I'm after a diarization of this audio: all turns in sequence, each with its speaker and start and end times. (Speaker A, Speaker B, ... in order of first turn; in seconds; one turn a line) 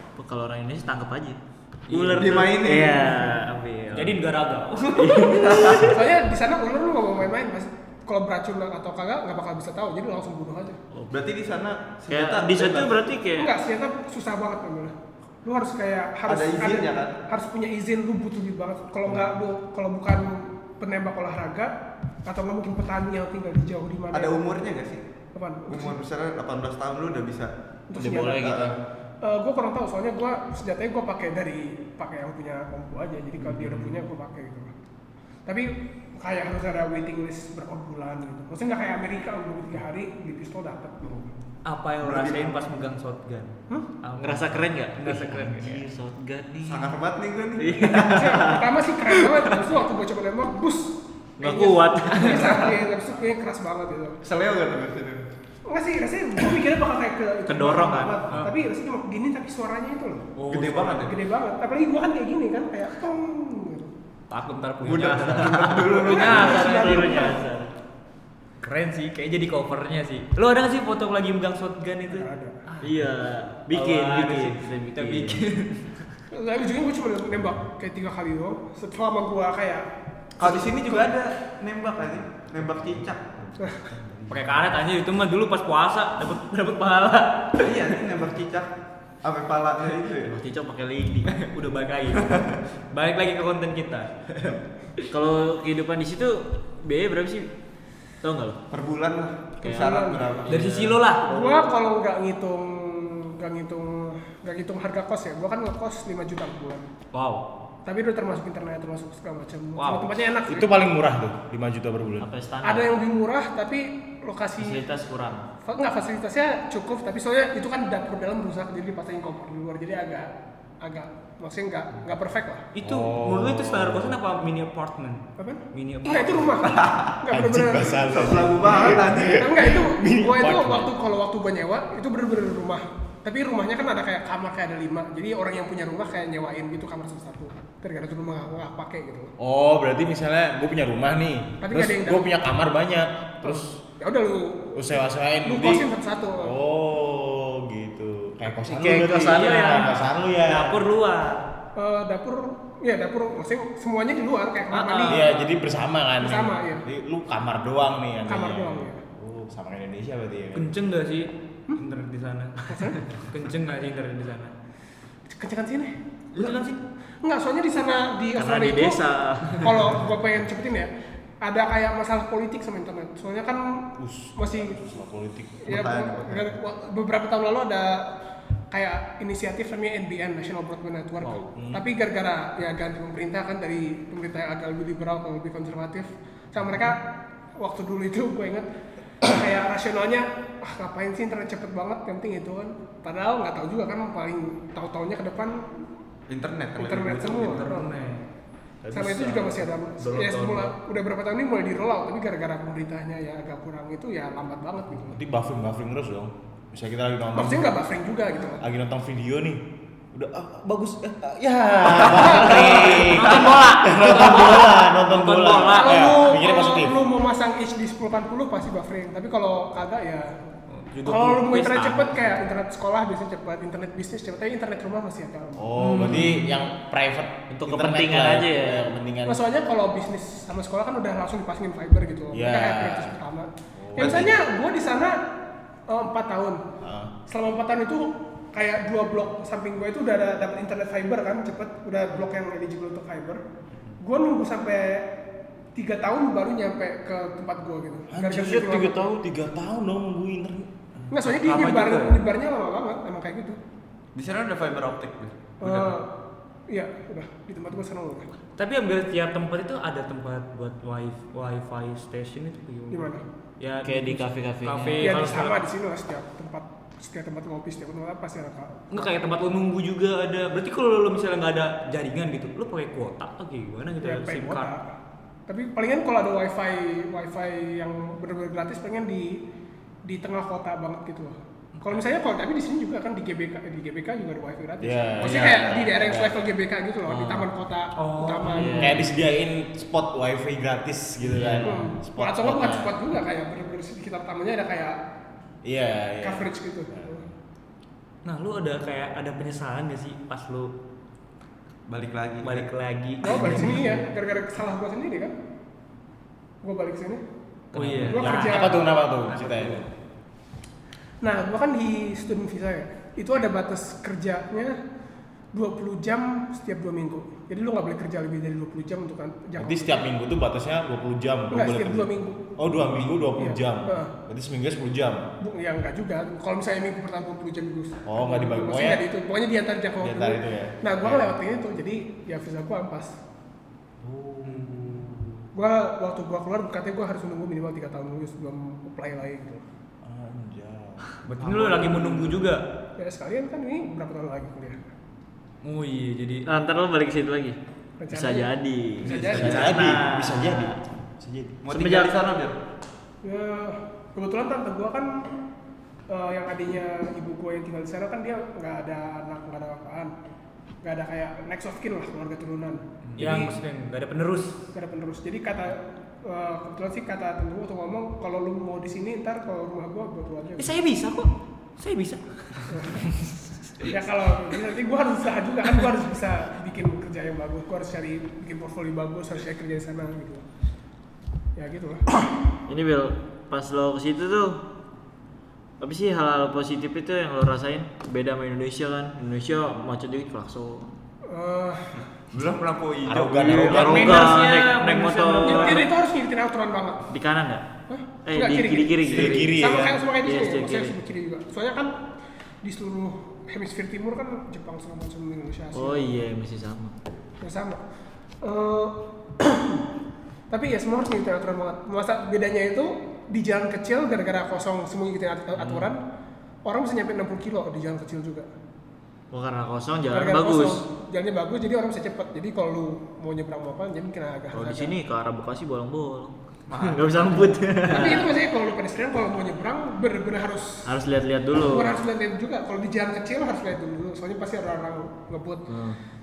Speaker A: 0.2-4.2
Speaker B: 1.9-2.5
Speaker C: 2.1-3.2
Speaker B: 3.9-5.6
Speaker A: 5.0-6.0
Speaker C: 5.2-5.9
Speaker D: 5.8-10.8
Speaker C: 11.1-13.0
Speaker A: 12.1-13.5
Speaker D: 13.3-21.7
Speaker C: 16.3-17.2
Speaker D: 22.2-24.4
Speaker C: 24.1-25.0
Speaker D: 25.3-26.0
Speaker C: 25.7-28.8
Speaker D: 27.9-28.6
Speaker E: 28.0-28.7
Speaker A: 28.2-28.6
Speaker D: 29.2-34.7
Speaker B: 33.4-34.0
Speaker D: 35.5-41.4
Speaker B: 41.6-45.8
Speaker C: 42.0-42.6
Speaker A: 44.2-46.9
Speaker C: 46.6-48.5
Speaker A: 47.6-49.5
Speaker D: 48.0-54.2
Speaker A: 51.4-52.8
Speaker C: 54.2-55.3
Speaker D: 55.6-60.3
Speaker B: 57.5-58.5
Speaker B: 60.4-61.1
Speaker C: 60.5-61.1
Speaker D: 61.0-63.9
Speaker B: 64.3-67.2
Speaker C: 64.8-67.0
Speaker D: 65.9-67.4
Speaker A: 66.0-67.7
Speaker B: 68.6-76.1
Speaker D: 72.1-72.6
Speaker A: 72.8-75.4
Speaker D: 76.3-79.8
Speaker C: 80.4-84.4
Speaker D: 80.4-81.1
Speaker D: 83.6-83.8
Speaker B: 84.3-87.9
Speaker C: 87.6-88.7
Speaker C: 89.2-90.4
Speaker A: 90.2-91.4
Speaker B: 91.2-95.0
Speaker C: 92.1-92.6
Speaker A: 95.1-97.5
Speaker A: 98.2-98.6
Speaker C: 98.7-101.0
Speaker D: 99.6-100.3
Speaker A: 99.6-101.6
Speaker B: 100.5-101.2
Speaker D: 101.2-106.9
Speaker B: 107.1-107.5
Speaker D: 107.8-110.8
Speaker B: 109.8-110.2
Speaker E: 110.5-112.3
Speaker A: 112.2-113.0
Speaker D: 112.6-114.8
Speaker A: 114.6-115.5
Speaker D: 115.6-120.3
Speaker D: 120.8-122.7
Speaker B: 122.7-126.7
Speaker E: 122.8-124.2
Speaker D: 125.4-139.3
Speaker C: 126.6-127.1
Speaker E: 127.3-130.9
Speaker C: 128.0-129.8
Speaker E: 139.4-143.8
Speaker D: 141.6-142.3
Speaker D: 143.4-146.5
Speaker E: 144.8-145.9
Speaker E: 146.4-150.8
Speaker A: 148.7-149.9
Speaker B: 148.7-151.5
Speaker D: 151.8-155.2
Speaker B: 154.7-155.3
Speaker E: 155.1-160.7
Speaker D: 156.2-156.8
Speaker D: 158.3-159.0
Speaker B: 160.5-164.5
Speaker D: 162.7-163.0
Speaker D: 165.3-165.9
Speaker C: 166.3-166.6
Speaker B: 166.3-166.8
Speaker D: 167.2-174.8
Speaker A: 168.3-169.9
Speaker E: 174.0-175.8
Speaker D: 175.6-178.1
Speaker C: 175.7-176.5
Speaker D: 178.7-187.0
Speaker E: 181.5-181.8
Speaker D: 187.6-188.7
Speaker D: 189.2-195.8
Speaker C: 196.3-197.6
Speaker D: 196.8-197.9
Speaker B: 197.3-198.2
Speaker B: 198.8-200.7
Speaker D: 198.9-205.2
Speaker E: 205.1-207.8
Speaker D: 207.3-208.6
Speaker E: 208.6-209.6
Speaker E: 210.1-217.0
Speaker C: 211.9-213.2
Speaker D: 212.1-213.0
Speaker B: 213.0-215.9
Speaker A: 213.4-214.7
Speaker A: 215.4-215.8
Speaker D: 215.6-226.1
Speaker B: 220.7-222.4
Speaker E: 225.6-229.4
Speaker B: 225.8-226.4
Speaker A: 227.5-228.9
Speaker D: 229.2-235.2
Speaker E: 232.3-233.1
Speaker E: 233.8-234.4
Speaker C: 234.0-234.3
Speaker D: 235.9-236.6
Speaker E: 236.8-237.1
Speaker D: 237.3-243.4
Speaker D: 244.0-245.1
Speaker D: 245.7-249.0
Speaker E: 248.1-250.7
Speaker D: 251.1-253.6
Speaker C: 251.2-252.2
Speaker C: 254.1-255.5
Speaker D: 255.6-256.1
Speaker D: 256.7-258.3
Speaker B: 258.6-265.6
Speaker D: 262.9-263.2
Speaker A: 263.8-265.4
Speaker D: 265.0-269.1
Speaker B: 268.9-274.7
Speaker D: 274.0-274.9
Speaker D: 275.5-279.4
Speaker D: 280.0-289.0
Speaker E: 284.8-286.5
Speaker A: 287.1-287.4
Speaker B: 288.0-289.0
Speaker A: 288.5-289.0
Speaker E: 288.8-292.9
Speaker A: 291.3-291.8
Speaker D: 291.6-295.0
Speaker E: 295.6-297.3
Speaker D: 296.2-297.2
Speaker B: 298.2-300.7
Speaker C: 301.9-302.7
Speaker B: 302.4-304.0
Speaker D: 303.2-305.3
Speaker D: 306.6-307.2
Speaker B: 307.7-309.9
Speaker E: 307.8-309.9
Speaker D: 308.0-308.9
Speaker D: 311.2-314.8
Speaker D: 315.5-320.1
Speaker E: 319.6-325.2
Speaker D: 321.5-322.6
Speaker D: 323.4-324.1
Speaker D: 325.4-333.2
Speaker E: 328.1-329.0
Speaker E: 330.0-331.3
Speaker E: 334.0-335.4
Speaker D: 335.5-339.6
Speaker E: 340.0-341.0
Speaker B: 341.2-342.6
Speaker C: 341.4-342.4
Speaker D: 343.0-344.9
Speaker B: 345.6-346.4
Speaker A: 346.4-347.6
Speaker D: 348.0-349.8
Speaker A: 348.1-350.8
Speaker E: 349.3-351.6
Speaker C: 351.6-352.6
Speaker A: 351.7-352.2
Speaker D: 353.2-355.4
Speaker D: 356.1-360.1
Speaker D: 360.8-363.6
Speaker B: 363.1-364.6
Speaker D: 364.7-370.7
Speaker B: 370.6-373.2
Speaker D: 372.7-373.0
Speaker D: 373.8-380.4
Speaker D: 381.6-382.2
Speaker A: 382.7-384.6
Speaker A: 385.8-390.9
Speaker D: 391.3-392.0
Speaker C: 392.3-394.0
Speaker E: 393.1-394.4
Speaker A: 393.3-395.9
Speaker B: 393.7-395.9
Speaker D: 395.4-397.1
Speaker A: 397.1-397.6
Speaker D: 397.9-401.9
Speaker A: 398.2-399.6
Speaker E: 399.1-400.0
Speaker A: 400.2-401.0
Speaker D: 402.6-406.1
Speaker A: 405.7-406.9
Speaker D: 407.4-407.8
Speaker D: 408.4-409.8
Speaker D: 410.5-416.0
Speaker A: 415.6-415.9
Speaker D: 416.6-418.5
Speaker A: 419.3-420.8
Speaker D: 420.1-424.9
Speaker A: 424.5-428.3
Speaker C: 426.7-427.6
Speaker D: 427.9-430.9
Speaker A: 430.9-432.0
Speaker D: 431.6-435.7
Speaker A: 435.7-436.0